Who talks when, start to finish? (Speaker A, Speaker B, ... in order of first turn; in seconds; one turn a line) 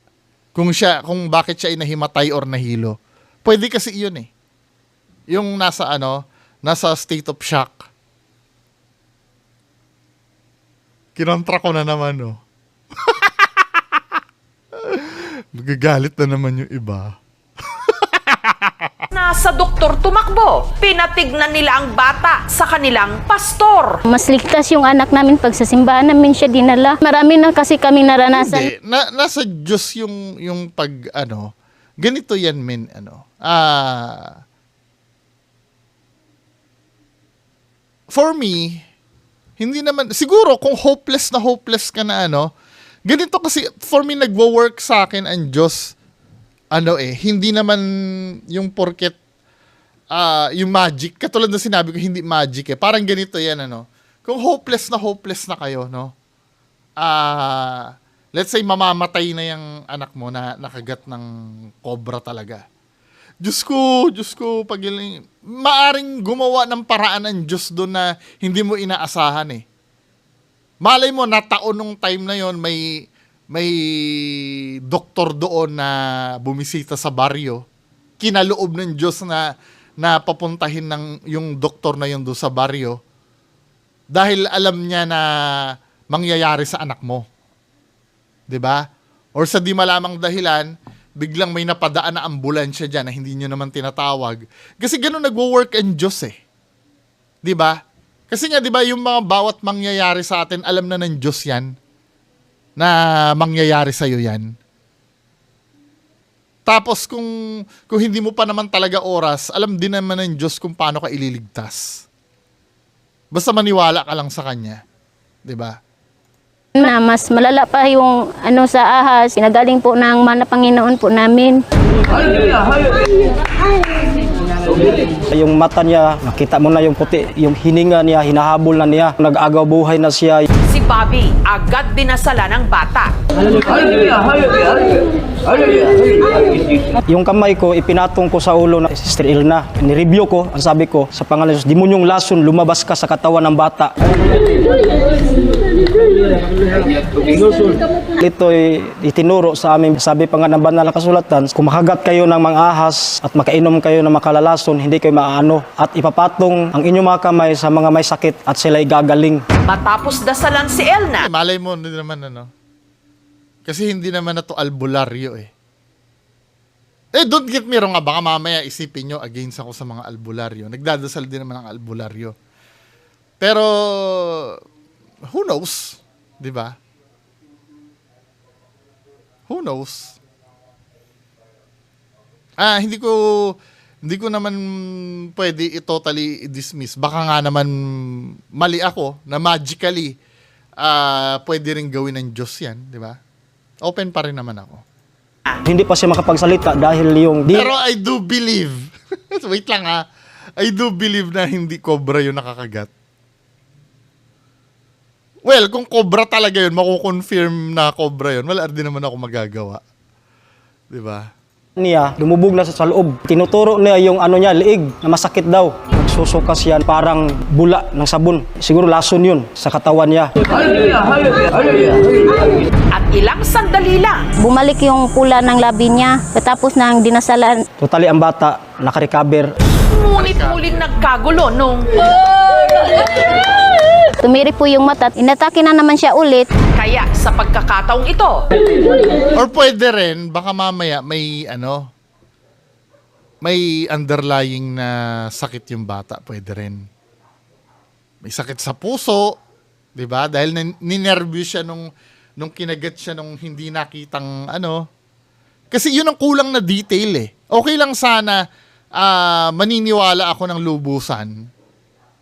Speaker A: 0.5-4.3
Speaker A: 5.3-7.9
Speaker A: 11.2-12.4
Speaker A: 13.0-14.2
Speaker A: 14.8-17.1
Speaker A: 17.8-19.0
Speaker B: 19.1-24.0
Speaker C: 24.1-28.7
Speaker A: 28.3-31.5
Speaker A: 32.0-34.4
Speaker A: 38.1-38.8
Speaker A: 39.6-42.5
Speaker A: 43.1-45.9
Speaker A: 46.7-47.8
Speaker A: 48.5-49.2
Speaker A: 50.1-56.1
Speaker A: 57.0-61.3
Speaker A: 61.8-62.6
Speaker A: 63.4-69.6
Speaker A: 70.8-72.8
Speaker A: 73.5-77.6
Speaker A: 78.2-79.4
Speaker A: 80.0-83.0
Speaker A: 84.1-87.2
Speaker A: 88.5-88.8
Speaker A: 89.3-96.3
Speaker A: 97.4-97.8
Speaker A: 98.3-101.7
Speaker A: 102.8-104.5
Speaker A: 106.7-107.3
Speaker A: 107.9-112.0
Speaker A: 113.3-114.8
Speaker A: 115.5-115.8
Speaker C: 116.8-121.6
Speaker D: 125.3-130.4
Speaker B: 130.7-133.1
Speaker D: 137.1-143.9
Speaker D: 148.2-159.4
Speaker B: 159.7-161.3
Speaker A: 161.2-162.5
Speaker A: 163.7-165.5
Speaker A: 167.1-172.3
Speaker A: 173.4-174.6
Speaker A: 175.3-176.7
Speaker A: 179.5-180.2
Speaker A: 182.6-183.5
Speaker A: 184.0-190.1
Speaker A: 190.8-193.2
Speaker A: 193.8-194.8
Speaker D: 195.7-197.7
Speaker A: 197.5-198.8
Speaker A: 199.3-200.0
Speaker A: 200.6-202.9
Speaker A: 205.4-209.8
Speaker A: 210.9-211.3
Speaker D: 211.8-220.9
Speaker B: 222.9-224.3
Speaker C: 224.4-227.6
Speaker D: 227.8-229.5
Speaker B: 229.9-232.1
Speaker A: 230.1-230.8
Speaker C: 234.2-236.5
Speaker B: 236.8-238.4
Speaker A: 239.4-241.9
Speaker A: 243.4-246.8
Speaker A: 248.2-249.3
Speaker A: 250.0-251.8
Speaker A: 252.4-254.8
Speaker A: 255.7-258.4
Speaker A: 259.0-261.3